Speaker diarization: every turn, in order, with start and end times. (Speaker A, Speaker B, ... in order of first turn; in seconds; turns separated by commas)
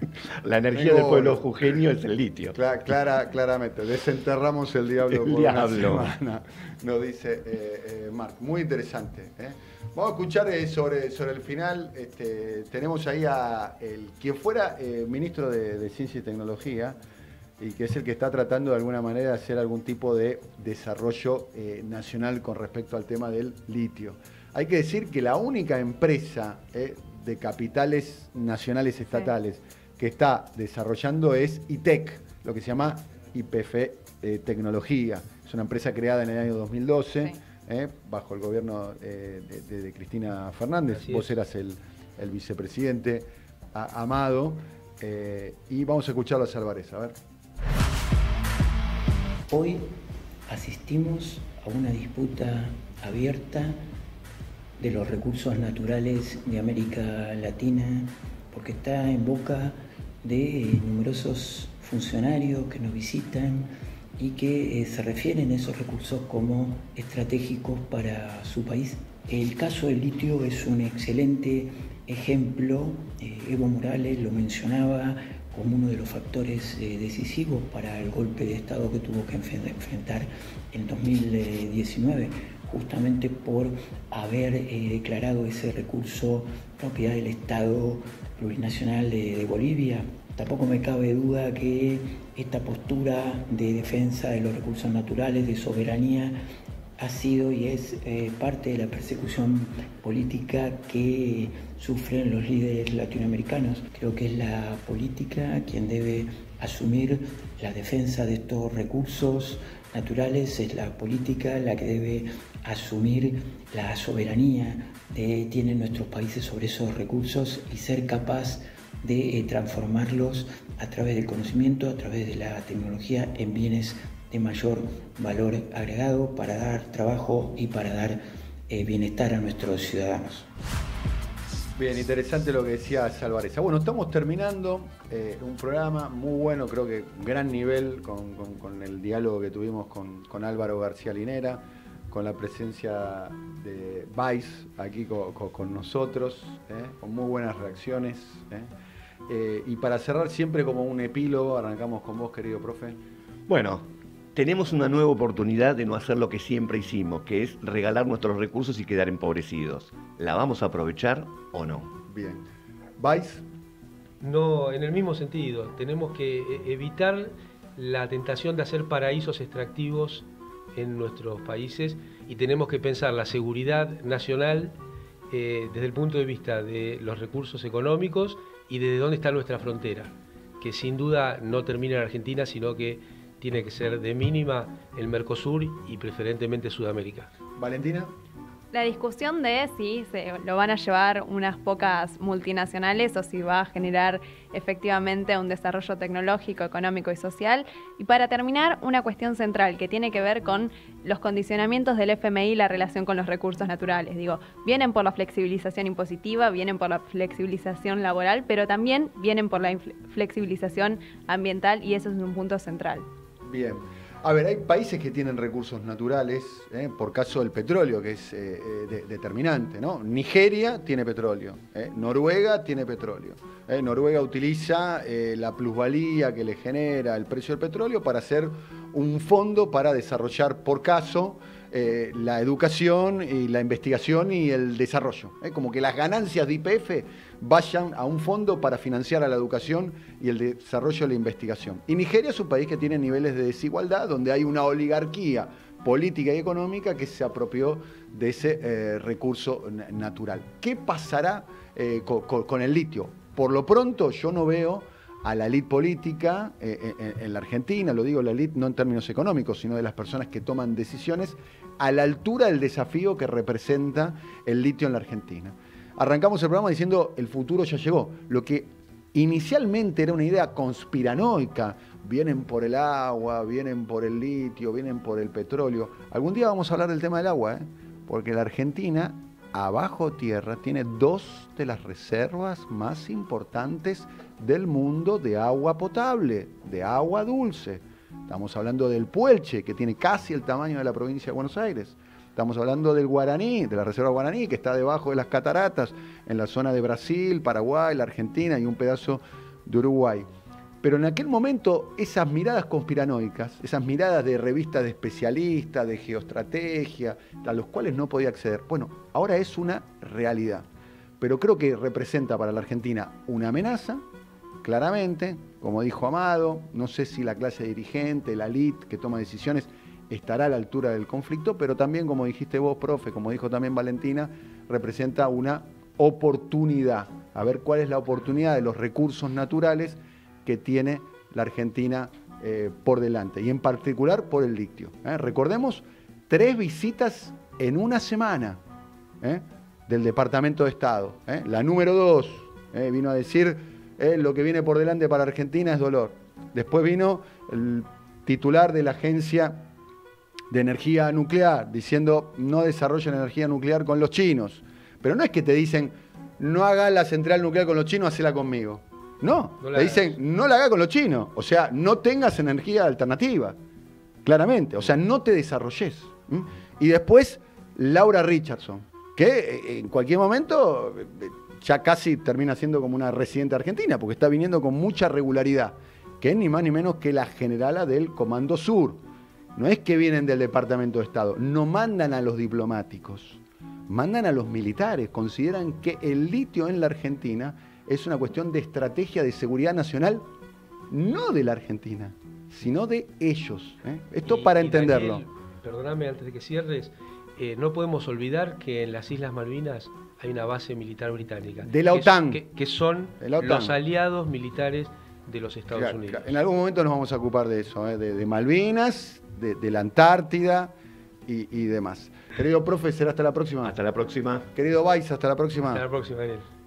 Speaker A: 0.4-2.5, Speaker B: 0.7-1.4, Speaker B: 2.5-17.0, Speaker A: 5.1-6.1, Speaker B: 17.6-47.1, Speaker C: 41.0-41.3, Speaker D: 49.5-49.9, Speaker D: 50.5-53.8, Speaker D: 54.8-96.4, Speaker D: 97.0-130.4, Speaker B: 131.8-148.7, Speaker B: 149.3-153.0, Speaker A: 153.5-161.9, Speaker B: 162.1-162.4, Speaker B: 163.0-163.4, Speaker C: 164.2-174.7, Speaker C: 175.3-187.3, Speaker B: 187.6-188.1, Speaker E: 188.7-213.0, Speaker B: 213.4-300.3, Speaker B: 300.8-310.6, Speaker B: 311.2-314.0, Speaker B: 314.6-338.6, Speaker B: 339.2-349.6, Speaker B: 350.5-363.6, Speaker C: 359.6-360.1, Speaker B: 364.2-379.0, Speaker B: 379.5-390.3, Speaker B: 390.9-395.2, Speaker C: 394.2-406.4, Speaker B: 401.6-402.4, Speaker B: 403.2-403.7, Speaker B: 405.7-410.7, Speaker B: 411.3-413.8, Speaker A: 413.6-414.4, Speaker B: 414.5-415.8, Speaker C: 415.7-416.4